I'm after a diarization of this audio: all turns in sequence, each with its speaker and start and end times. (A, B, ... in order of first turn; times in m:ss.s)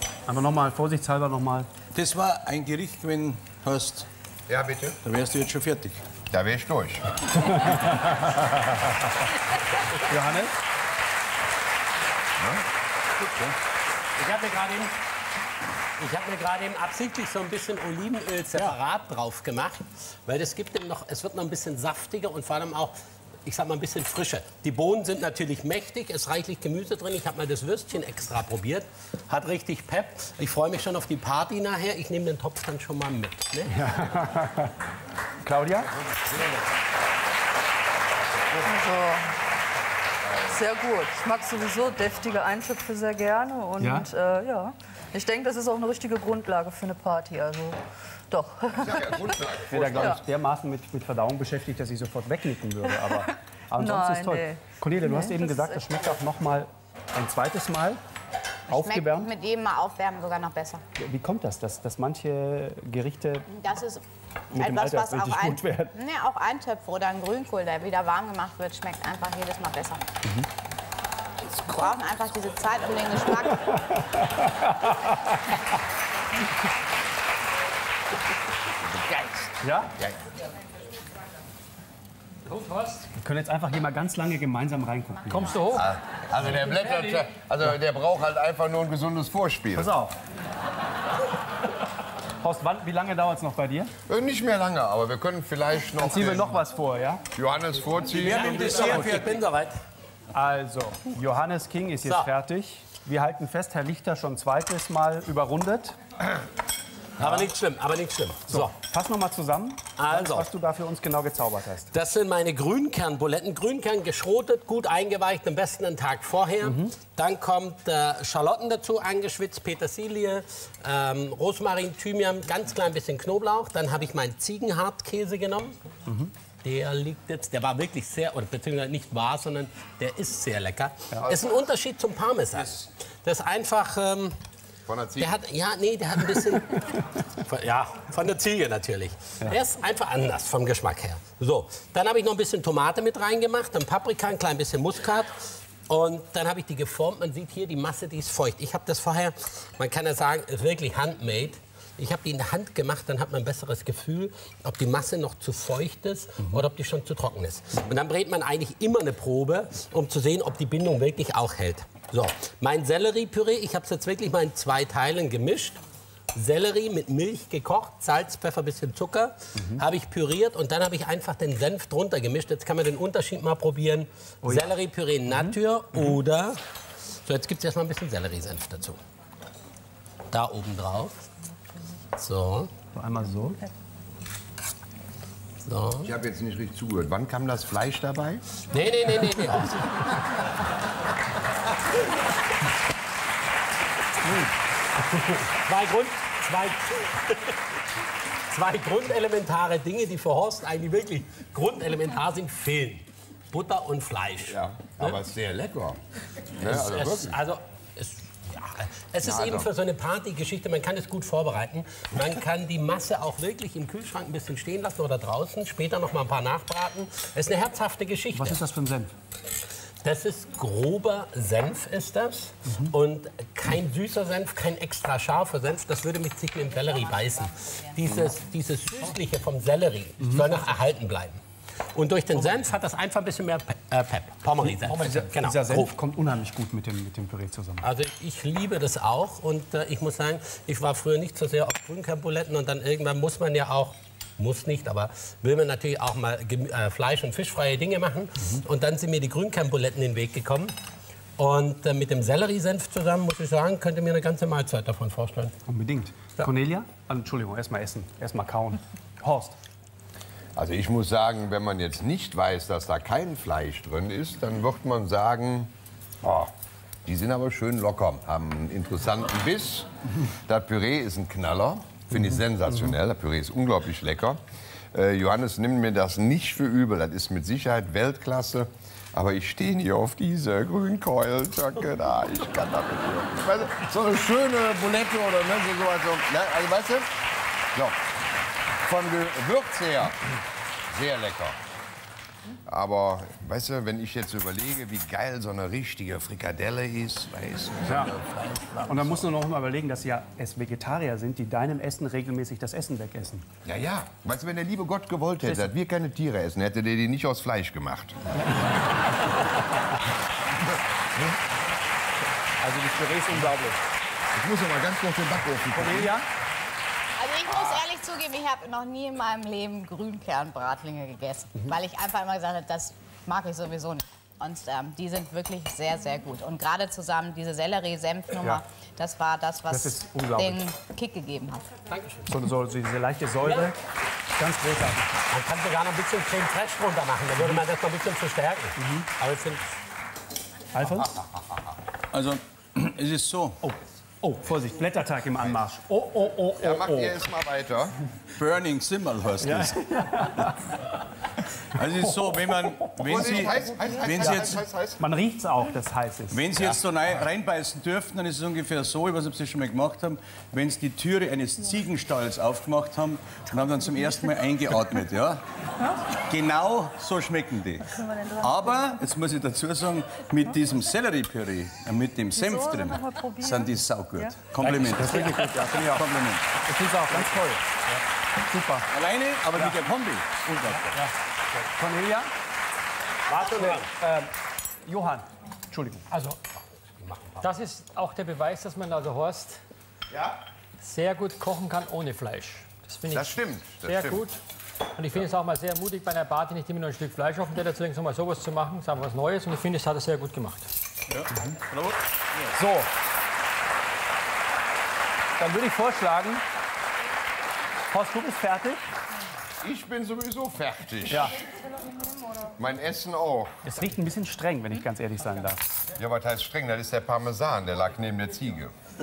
0:00.3-0:01.7 A
0:01.9-0:04.1 B
0:04.5-0:05.0 C
0:05.0-0:06.0 B
0:06.3-0:07.1 C
0:07.7-0:08.2 A
0:10.1-0:10.5 A
0:12.4-0:12.6 C
0:14.2-0:14.9 D
0:16.0-0:22.9 D
0:23.5-0:33.8 D
0:33.7-0:34.7 A
0:35.4-0:35.9 A
0:35.9-0:36.6 C
0:38.6-0:39.3 E
0:40.5-0:47.8 E
0:43.8-0:44.1 A
0:48.3-0:49.4 E
0:48.8-0:50.2 C
0:49.7-0:58.0 A
0:53.3-0:56.1 E
0:58.7-0:59.3 A
0:58.7-1:00.8 F
1:01.0-1:03.5 A
1:03.5-1:10.0 F
1:04.6-1:05.9 A
1:11.5-1:13.7 F
1:13.9-1:15.5 A
1:19.0-1:19.3 C
1:19.6-1:19.9 A
1:22.4-1:23.1 G
1:23.2-1:25.6 A
1:25.3-1:25.9 G
1:25.7-1:29.9 C
1:26.5-1:27.2 G
1:29.8-1:30.2 A
1:32.4-1:33.9 A
1:34.1-1:36.6 C
1:36.0-1:37.2 A
1:37.3-1:39.1 C
1:38.1-1:39.8 D
1:38.2-1:39.4 B
1:38.6-1:39.2 A
1:40.3-1:46.0 A
1:47.2-1:48.7 D
1:48.5-1:51.9 A
1:50.0-1:50.5 D
1:51.9-2:05.8 D
1:56.6-1:56.9 A
2:06.1-2:06.3 A
2:06.6-2:14.4 D
2:12.6-2:12.9 B
2:14.9-2:15.4 C
2:15.2-2:45.8 D
2:46.4-2:56.6 D
2:54.4-2:54.7 A
2:55.3-2:55.6 A
2:57.3-2:59.0 D
3:00.3-3:01.2 D
3:02.2-3:02.7 D
3:02.9-3:03.6 A
3:05.6-3:06.1 D
3:06.0-3:08.4 C
3:08.7-3:10.2 D
3:15.0-3:17.6 D
3:18.5-3:24.6 D
3:24.5-3:26.0 C
3:26.6-3:27.4 C
3:26.6-3:38.6 D
3:29.2-3:29.7 C
3:38.3-3:39.1 A
3:40.0-3:51.4 D
3:46.6-3:48.0 F
3:51.9-3:55.9 D
3:54.9-3:57.9 A
3:57.8-4:10.8 D
4:11.4-4:15.6 D
4:15.7-4:19.6 A
4:20.6-4:26.5 C
4:27.0-4:34.4 C
4:32.1-4:32.9 A
4:34.9-4:47.1 C
4:48.8-4:50.2 C
4:50.9-4:51.6 C
4:52.7-4:58.4 C
4:58.9-5:03.5 A
5:03.6-5:08.2 C
5:05.4-5:05.7 A
5:11.1-5:11.4 C
5:12.6-5:13.8 A
5:14.3-5:16.1 C
5:15.8-5:16.3 A
5:17.2-5:31.7 F
5:29.7-5:30.6 A
5:31.9-5:32.3 D
5:32.3-5:33.8 A
5:34.4-5:35.1 A
5:35.3-5:39.6 D
5:38.8-5:39.1 A
5:40.7-5:41.1 A
5:42.1-5:43.6 B
5:43.6-5:47.2 A
5:46.6-5:47.9 C
5:48.4-5:50.6 B
5:49.4-5:50.6 A
5:51.7-5:54.6 B
5:52.8-5:53.3 A
5:53.0-5:55.0 C
5:55.0-5:56.4 A
5:56.3-6:05.4 B
6:06.2-6:07.9 B
6:08.0-6:08.8 E
6:08.4-6:16.5 B
6:12.3-6:14.5 E
6:14.6-6:16.0 A
6:16.6-6:17.6 A
6:17.1-6:17.4 B
6:18.5-6:18.9 A
6:18.9-6:20.9 B
6:21.7-6:22.3 A
6:23.3-6:23.9 D
6:23.6-6:24.3 A
6:24.9-6:26.1 A
6:26.1-6:26.4 D
6:27.0-6:27.5 D
6:27.4-6:29.6 G
6:30.1-6:30.4 C
6:30.8-6:34.4 G
6:33.1-6:34.2 C
6:35.0-6:40.7 G
6:41.1-6:42.6 B
6:42.6-6:42.9 A
6:45.4-6:46.4 A
6:47.9-6:48.8 A
6:49.6-6:51.5 C
6:51.1-6:51.4 A
6:52.4-6:53.5 C
6:53.6-6:55.6 A
6:56.0-6:58.7 C